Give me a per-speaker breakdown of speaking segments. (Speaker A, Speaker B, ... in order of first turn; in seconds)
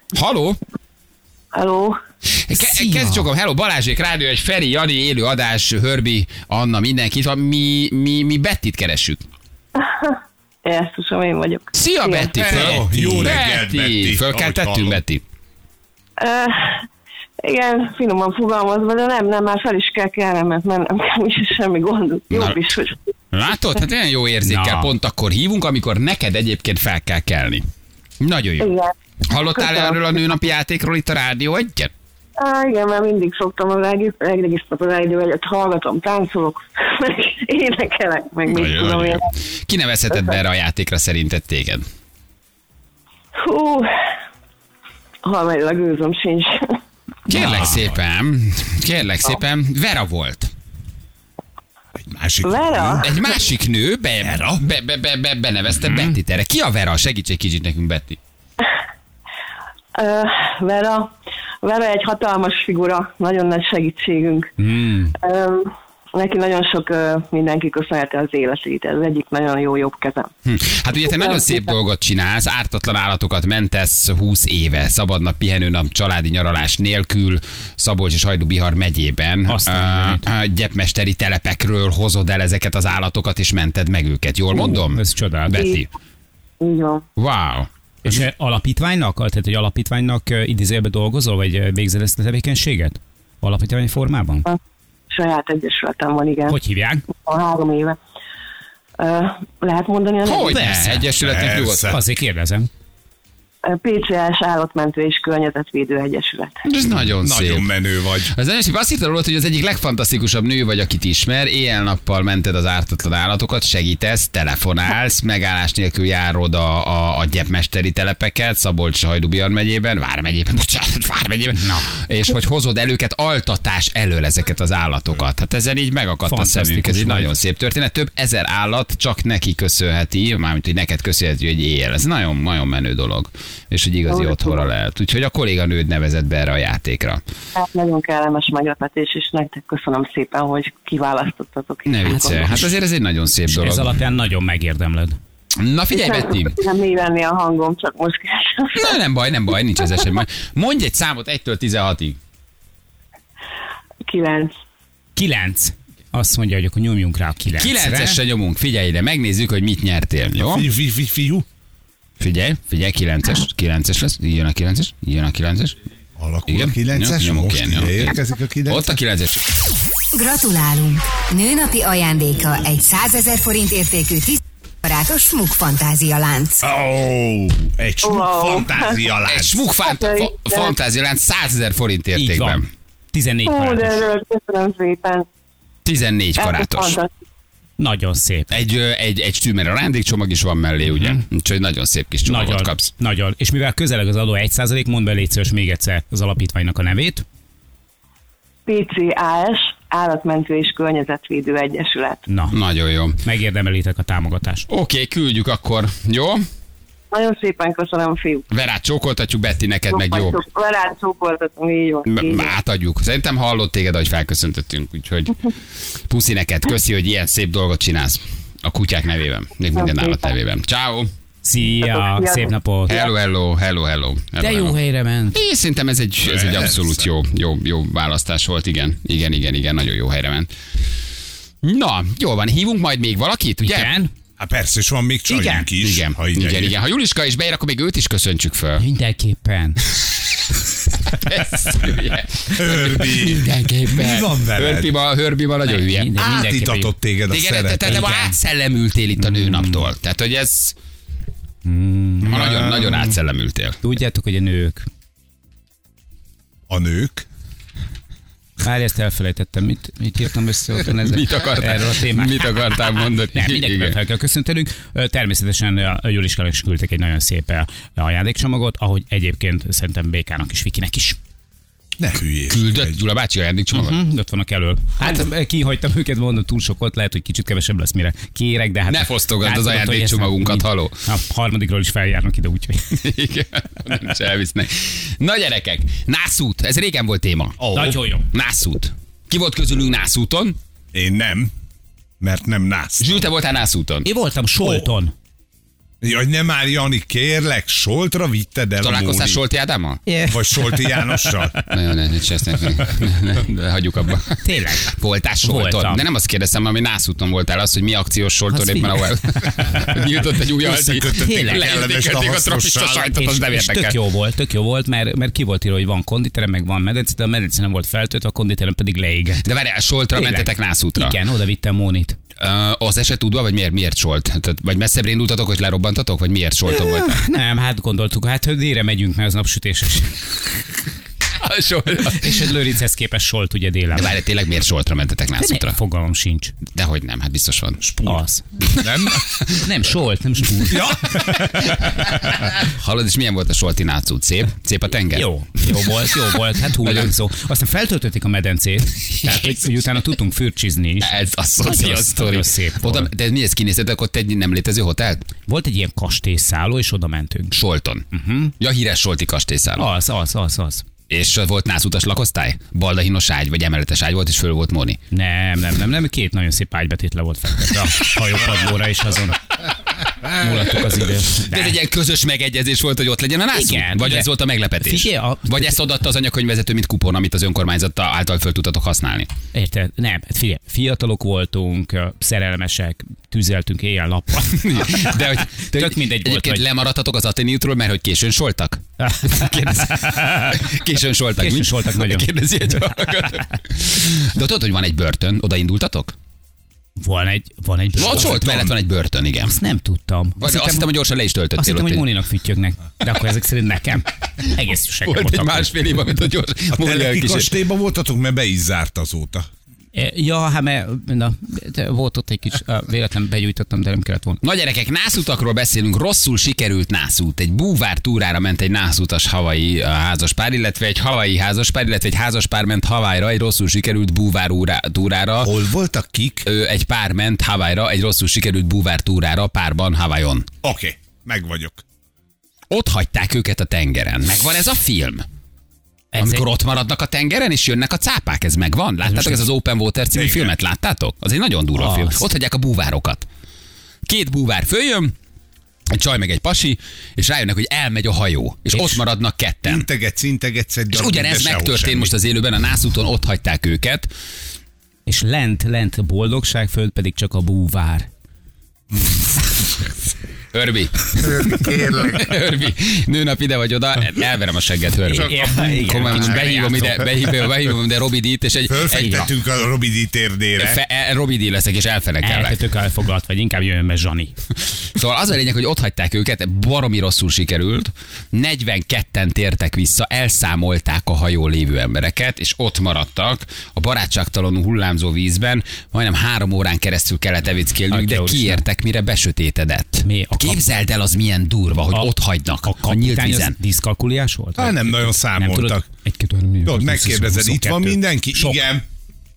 Speaker A: 0.1-0.6, 2.5-9.2, 11.8-15.2, 22.3-22.6, 23.3-27.7, 28.2-28.7, 29.3-31.9, 38.5-41.9, 47.3-50.5, 53.0-58.2, 70.5-85.9, 87.2-87.7, 100.2-101.9, 106.7-107.7, 108.3-137.2, 141.9-144.0, 145.6-146.6, 148.8-152.2, 157.5-160.7, 162.2-165.8, 166.5-168.2, 168.7-169.4, 179.3-182.7, 185.8-187.0, 188.5-192.9, 202.5-203.2, 204.7-206.4, 208.5-210.4, 212.1-215.5, 216.1-221.1, 222.9-224.8, 225.3-230.5, 231.6-233.9, 235.8-238.8, 241.1-246.1, 247.3-250.8, 252.2-253.8, 260.9-264.0, 272.5-274.0, 278.9-281.0, 282.9-287.7, 288.3-290.6, 293.0-294.1, 298.8-300.0, 301.7-314.0, 319.4-321.2, 322.4-327.2, 331.4-332.5, 333.9-335.8, 336.7-337.8, 338.7-339.6, 341.3-345.3, 346.8-347.1, 349.2-349.6, 351.0-355.2, 357.5-358.1, 358.6-359.9, 361.1-365.0, 371.4-379.3, 384.5-396.1, 398.0-399.6, 400.4-402.1, 405.1-407.6, 414.4-425.5, 426.4-430.5, 432.7-435.2, 436.2-443.3, 444.1-445.1, 445.9-449.9, 450.9-454.1, 460.5-469.3, 470.6-472.6, 474.9-493.6
Speaker B: 1.5-2.0, 9.8-12.8, 16.2-16.9, 17.4-23.0, 28.6-30.0, 32.4-39.3, 43.4-43.9, 45.2-46.8, 52.4-53.1, 60.0-64.5, 65.2-70.3, 71.0-71.7, 85.5-85.9, 86.6-87.0, 95.1-96.6, 97.1-98.0, 99.0-100.7, 103.7-106.6, 134.1-134.7, 137.6-142.7, 145.9-149.0, 154.1-154.6, 178.0-179.0, 179.8-180.7, 183.5-185.3, 186.4-187.1, 198.7-202.2, 207.1-208.4, 209.9-212.5, 219.8-220.3, 221.8-223.1
Speaker C: 2.5-3.0, 24.4-24.9, 47.3-47.8, 55.8-56.2, 64.6-65.2, 79.5-80.2, 84.7-85.7, 88.0-94.5, 96.5-97.1, 100.5-101.1, 101.9-102.7, 121.5-121.9, 126.3-127.3, 143.5-145.2, 155.2-158.2, 182.2-182.6, 183.1-184.1, 187.8-188.5, 190.9-191.2, 192.3-197.2, 202.3-202.6, 203.2-204.7, 221.4-223.0, 224.4-225.4, 233.6-234.1, 235.3-235.7, 238.8-239.8, 245.7-246.9, 247.8-248.4, 249.2-249.9, 251.7-252.4, 253.8-254.9, 258.6-262.8, 263.3-271.2, 273.7-283.0, 287.7-288.3, 294.1-295.1, 300.1-301.6, 304.4-306.0, 308.5-309.9, 311.1-311.7, 313.1-319.4, 320.1-322.2, 326.7-330.2, 332.0-334.2, 335.4-336.6, 338.1-338.4, 339.6-342.2, 345.1-353.1, 355.5-357.6, 358.1-358.5, 359.8-360.9, 365.1-369.4, 370.2-371.8, 373.5-374.3, 374.8-375.8, 379.5-386.6, 389.0-390.6, 391.4-392.3, 392.9-393.2, 397.0-398.4, 399.5-400.9, 401.6-405.7, 409.9-414.4, 436.1-436.4, 439.0-439.4, 441.8-442.2, 448.7-449.0, 455.1-458.1, 465.1-467.1, 472.2-474.4, 487.9-488.6, 490.0-490.6, 492.6-498.6
Speaker D: 12.4-15.0, 52.0-53.1, 54.2-54.6, 101.2-102.0, 107.0-108.3, 160.4-161.5, 166.2-169.0, 176.6-179.7, 226.2-227.1, 234.4-236.8, 242.5-244.9, 246.2-248.1, 252.2-253.2, 256.7-257.3, 272.0-273.0, 287.6-288.0, 290.9-291.5, 292.2-293.3, 294.6-294.9, 296.0-299.4, 300.3-301.6, 310.6-313.1, 337.8-339.3, 340.7-341.3, 398.0-398.7, 406.7-409.5, 425.4-426.5, 430.6-431.8, 440.1-440.5, 449.6-452.1, 461.3-462.2, 465.4-466.9, 468.7-470.8, 494.6-495.9, 496.6-498.9
Speaker E: 170.1-176.7